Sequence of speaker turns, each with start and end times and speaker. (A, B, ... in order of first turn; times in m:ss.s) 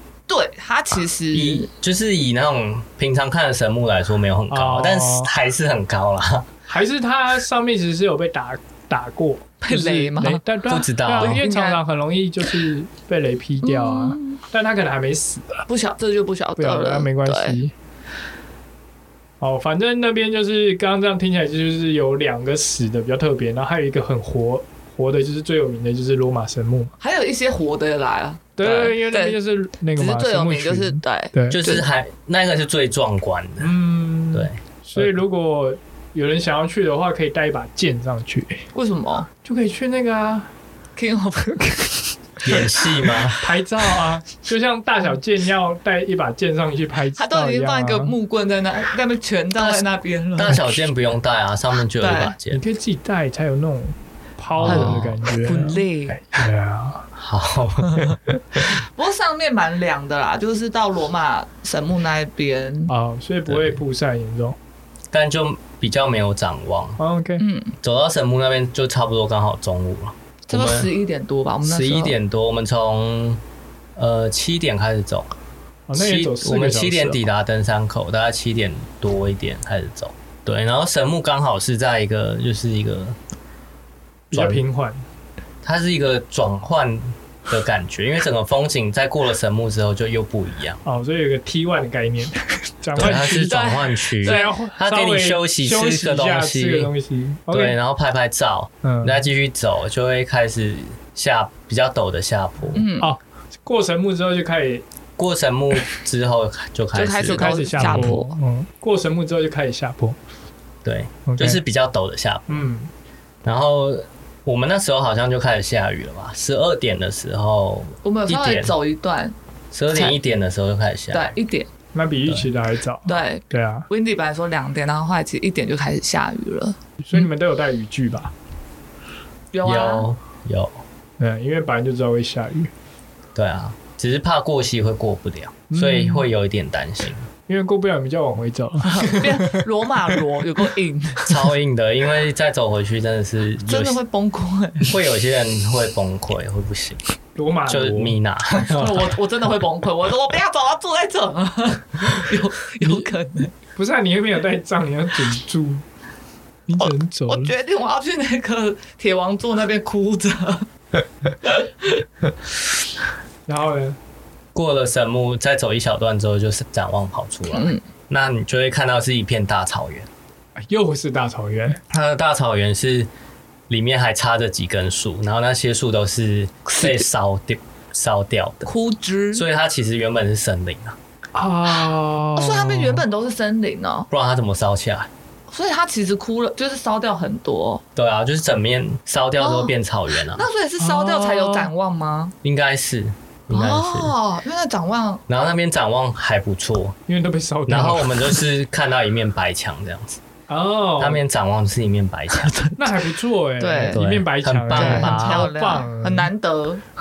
0:00.3-0:01.7 A
0:01.3-0:06.5 B
0:04.5-0:05.3 C
0:06.7-0:15.7 C
0:09.6-0:10.4 A
0:10.7-0:11.4 B
0:11.2-0:11.8 A
0:13.6-0:14.4 A
0:15.7-0:17.6 A
0:16.6-0:17.7 C
0:19.4-0:26.9 C
0:27.0-0:29.4 A
0:28.6-0:31.6 C
0:30.0-0:31.8 A
0:31.5-0:33.7 B
0:33.6-0:38.6 C
0:34.3-0:35.1 B
0:38.7-0:39.3 A
0:39.4-0:40.5 C
0:41.0-0:41.8 A
0:42.4-0:43.4 B
0:43.4-0:48.1 C
0:47.2-0:50.7 A
0:49.6-0:52.6 B
0:52.0-0:52.3 A
0:52.5-0:57.0 C
0:54.6-0:55.2 B
0:54.6-0:56.2 A
0:57.1-0:58.1 B
0:58.6-1:02.9 A
1:02.9-1:04.6 C
1:03.5-1:03.8 B
1:05.1-1:07.0 B
1:07.0-1:07.4 C
1:07.4-1:07.7 A
1:07.8-1:10.9 B
1:10.5-1:12.1 A
1:11.6-1:13.4 B
1:14.0-1:15.3 B
1:15.9-1:17.2 C
1:15.9-1:23.2 B
1:24.3-1:25.0 C
1:24.3-1:24.6 B
1:25.6-1:30.8 B
1:30.8-1:33.7 C
1:33.0-1:36.9 B
1:33.0-1:34.6 A
1:34.2-1:37.8 C
1:37.5-1:42.8 B
1:38.8-1:39.2 C
1:42.7-1:43.1 A
1:43.0-1:44.8 C
1:45.2-1:48.1 B
1:46.9-1:48.3 A
1:47.3-1:50.2 C
1:50.8-1:52.6 B
1:51.3-1:51.6 C
1:52.5-1:52.9 C
1:53.4-1:58.7 B
1:58.0-1:59.3 A
1:59.7-2:01.3 B
2:01.1-2:01.7 A
2:01.9-2:03.8 C
2:03.0-2:06.8 A
2:07.0-2:08.3 C
2:09.5-2:10.1 A
2:09.6-2:10.8 B
2:11.2-2:12.7 C
2:13.3-2:17.3 B
2:15.7-2:16.3 C
2:17.5-2:19.6 C
2:18.8-2:21.3 A
2:21.2-2:24.0 B
2:23.7-2:24.9 A
2:24.8-2:27.0 B
2:27.3-2:28.2 C
2:27.7-2:29.1 B
2:28.6-2:33.5 A
2:33.8-2:35.8 C
2:36.7-2:37.5 C
2:36.8-2:40.7 A
2:41.4-2:42.0 A
2:43.4-2:44.0 C
2:44.5-2:50.1 B
2:47.5-2:47.8 A
2:50.6-2:51.8 C
2:51.9-2:53.1 B
2:53.7-2:58.7 B
2:56.7-2:57.0 A
2:58.6-2:59.4 A
2:59.3-3:01.0 B
3:01.3-3:03.0 C
3:02.4-3:04.1 A
3:04.1-3:05.1 B
3:05.5-3:07.8 A
3:07.9-3:10.4 B
3:09.4-3:09.7 A
3:10.3-3:12.3 A
3:10.8-3:11.7 C
3:12.4-3:14.1 B
3:13.5-3:15.2 A
3:15.3-3:17.0 B
3:17.1-3:18.4 C
3:17.7-3:20.2 B
3:20.5-3:21.2 C
3:21.0-3:22.6 B
3:22.3-3:23.0 A
3:22.8-3:26.3 C
3:23.6-3:24.0 A
3:23.9-3:25.5 B
3:24.7-3:26.8 A